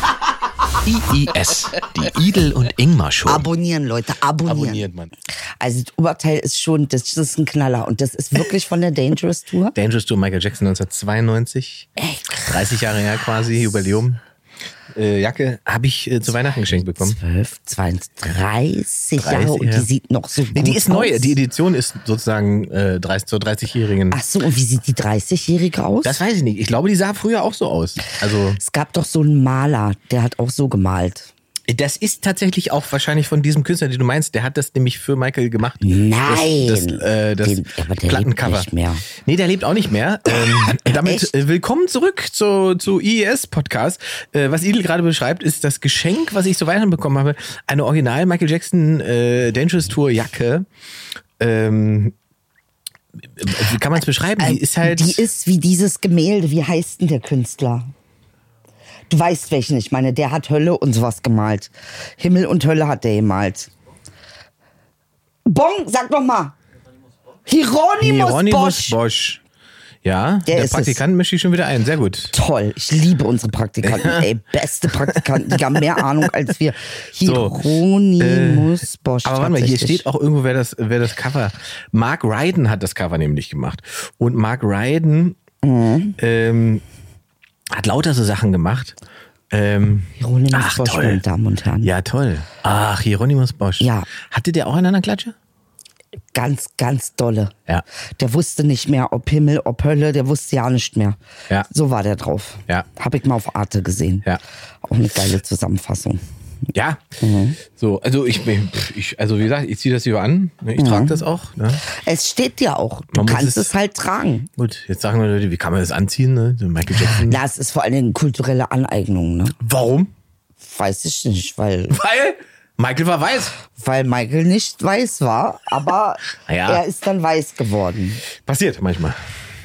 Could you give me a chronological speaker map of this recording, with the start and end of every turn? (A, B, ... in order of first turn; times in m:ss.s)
0:01.0-0:03.5 A
0:03.3-0:04.8 B
0:04.4-0:05.1 A
0:05.6-0:09.8 B
0:09.8-0:11.9 A
0:12.0-0:12.5 B
0:12.4-0:14.2 A
0:14.9-0:17.2 A
0:17.0-0:21.4 B
0:19.2-0:19.9 A
0:20.5-0:24.2 A
0:24.1-0:26.2 B
0:26.0-0:28.6 A
0:28.6-0:31.3 B
0:31.7-0:50.7 A
0:35.8-0:39.0 B
0:40.3-0:41.3 B
0:51.4-0:52.2 A
0:53.2-0:55.3 A
0:54.4-0:57.9 B
0:59.1-1:03.7 B
1:05.5-1:06.6 B
1:07.5-1:09.0 B
1:08.0-1:09.4 A
1:10.0-1:12.3 A
1:10.5-1:11.0 B
1:12.3-1:20.0 B
1:13.8-1:14.3 A
1:15.0-1:16.0 A
1:17.2-1:25.4 A
1:25.6-1:26.2 B
1:26.2-1:26.8 A
1:27.7-1:29.0 A
1:29.5-1:31.2 A
1:30.2-1:31.9 B
1:31.8-1:35.4 A
1:33.8-1:34.1 B
1:36.3-1:37.5 B
1:38.2-1:41.2 B
1:41.7-1:44.3 B
1:44.8-1:46.2 B
1:46.7-1:47.2 A
1:47.2-1:47.6 B
1:47.7-1:51.8 A
1:50.8-1:51.2 B
1:51.8-1:54.5 B
1:53.1-1:53.7 A
1:54.6-1:57.4 A
1:56.9-1:59.6 B
1:59.6-2:00.1 A
2:00.6-2:02.0 B
2:01.9-2:03.5 A
2:03.7-2:08.2 B
2:06.5-2:06.8 A
2:08.4-2:09.2 A